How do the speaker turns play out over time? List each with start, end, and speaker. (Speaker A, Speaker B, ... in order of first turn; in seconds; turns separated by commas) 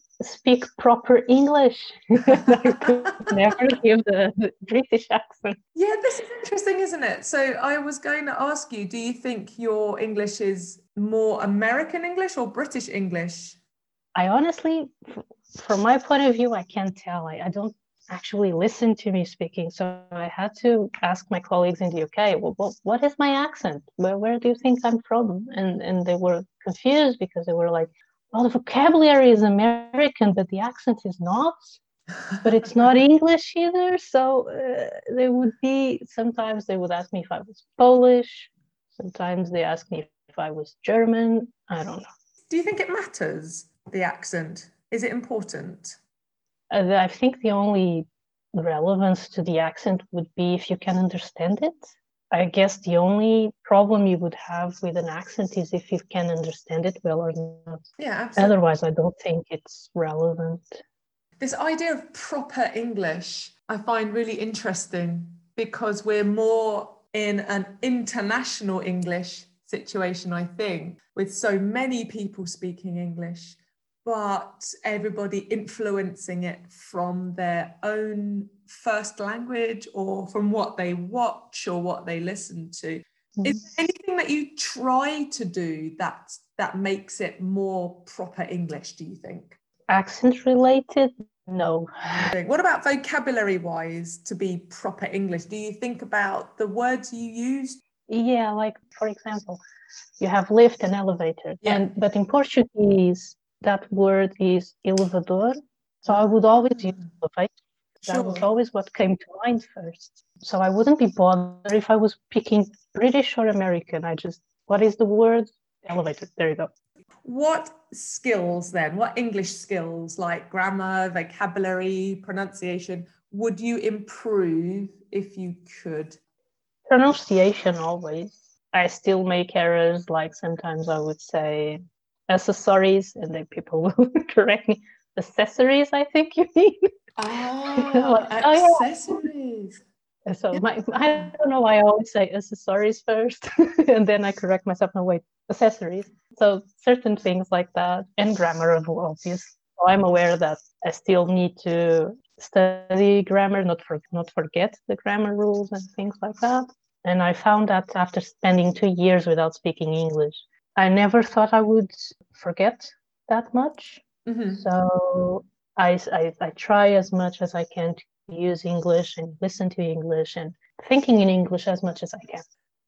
Speaker A: 0.2-5.6, Speaker B: 2.3-3.6, Speaker B: 5.7-13.6, Speaker A: 14.2-31.8, Speaker A: 32.4-42.1, Speaker B: 42.5-46.0, Speaker A: 46.7-57.8, Speaker B: 58.0-58.6, Speaker A: 58.4-60.8, Speaker B: 61.4-89.6, Speaker A: 89.9-92.3, Speaker B: 92.3-97.8, Speaker A: 98.1-99.6, Speaker A: 100.2-107.5, Speaker B: 101.6-101.9, Speaker B: 106.1-107.1, Speaker B: 108.0-108.5, Speaker A: 108.1-116.7, Speaker B: 117.2-126.2, Speaker A: 126.9-136.9, Speaker B: 137.2-139.8, Speaker A: 137.7-138.9, Speaker A: 140.3-172.5, Speaker B: 164.3-164.7